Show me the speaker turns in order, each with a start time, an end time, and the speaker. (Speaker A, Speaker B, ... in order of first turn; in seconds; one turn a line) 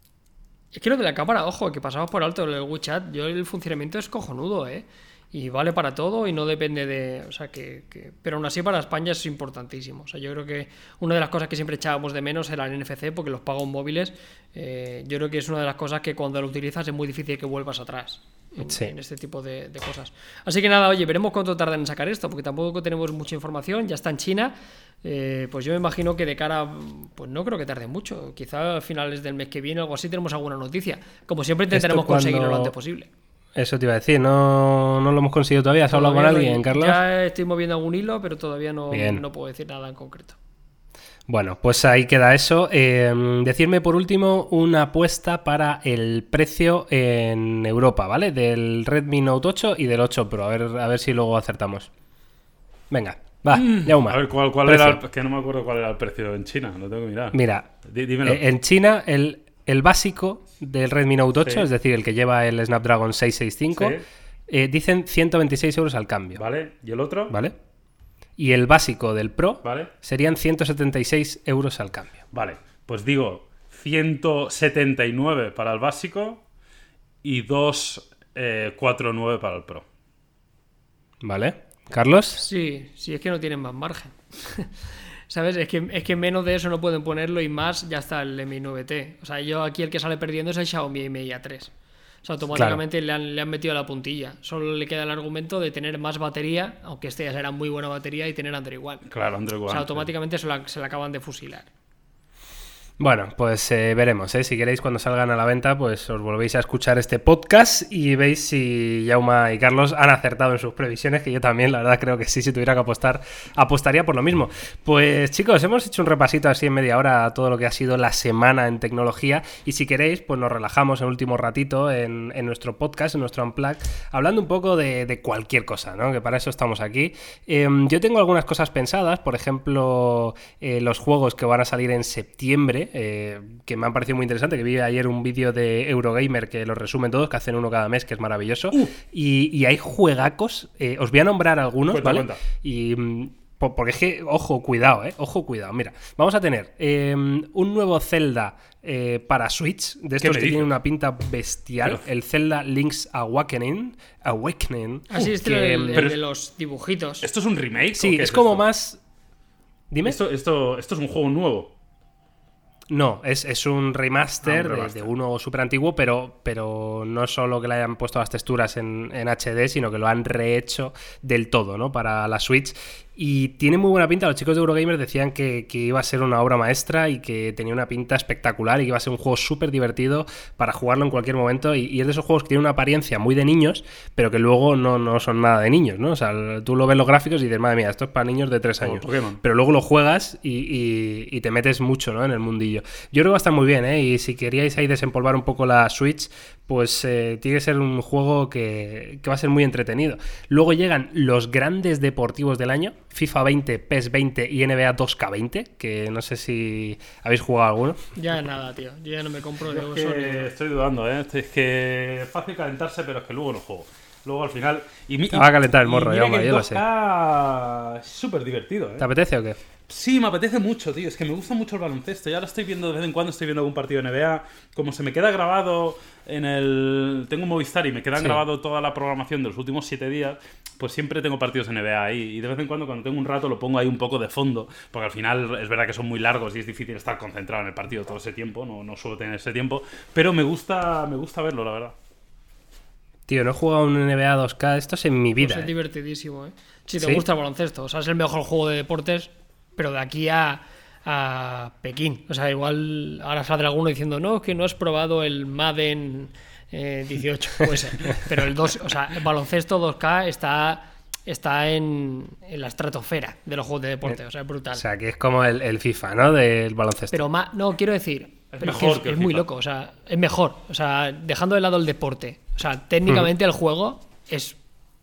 Speaker A: 0.7-33.1
Speaker B: 18.6-18.9
Speaker B: 31.7-32.7
Speaker B: 33.5-37.0
Speaker A: 35.9-40.4
Speaker B: 38.9-39.2
Speaker B: 41.3-51.9
Speaker B: 52.9-55.0
Speaker C: 53.5-58.4
Speaker B: 57.3-57.7
Speaker B: 58.2-64.0
Speaker C: 63.7-64.0
Speaker B: 64.5-66.4
Speaker C: 66.4-67.3
Speaker B: 67.3-67.6
Speaker B: 68.4-72.2
Speaker C: 69.6-69.9
Speaker C: 72.3-76.4
Speaker C: 77.2-79.8
Speaker B: 81.2-82.4
Speaker A: 82.4-84.7
Speaker A: 85.3-91.7
Speaker A: 92.2-99.0
Speaker B: 92.5-92.8
Speaker C: 99.1-100.1
Speaker A: 99.7-101.7
Speaker B: 103.0-156.1
Speaker C: 141.9-142.4
Speaker C: 150.2-150.7
Speaker A: 155.1-157.3
Speaker C: 157.2-158.6
Speaker B: 158.0-159.0
Speaker B: 159.9-160.2
Speaker C: 160.0-161.7
Speaker B: 162.9-208.0
Speaker C: 164.4-165.1
Speaker C: 188.8-189.4
Speaker A: 208.2-210.5
Speaker C: 209.7-219.1
Speaker B: 215.3-216.8
Speaker B: 219.0-219.6
Speaker C: 219.9-241.9
Speaker B: 243.3-245.7
Speaker A: 245.4-264.8
Speaker B: 247.0-247.2
Speaker B: 264.7-267.2
Speaker A: 267.1-274.6
Speaker C: 268.6-269.4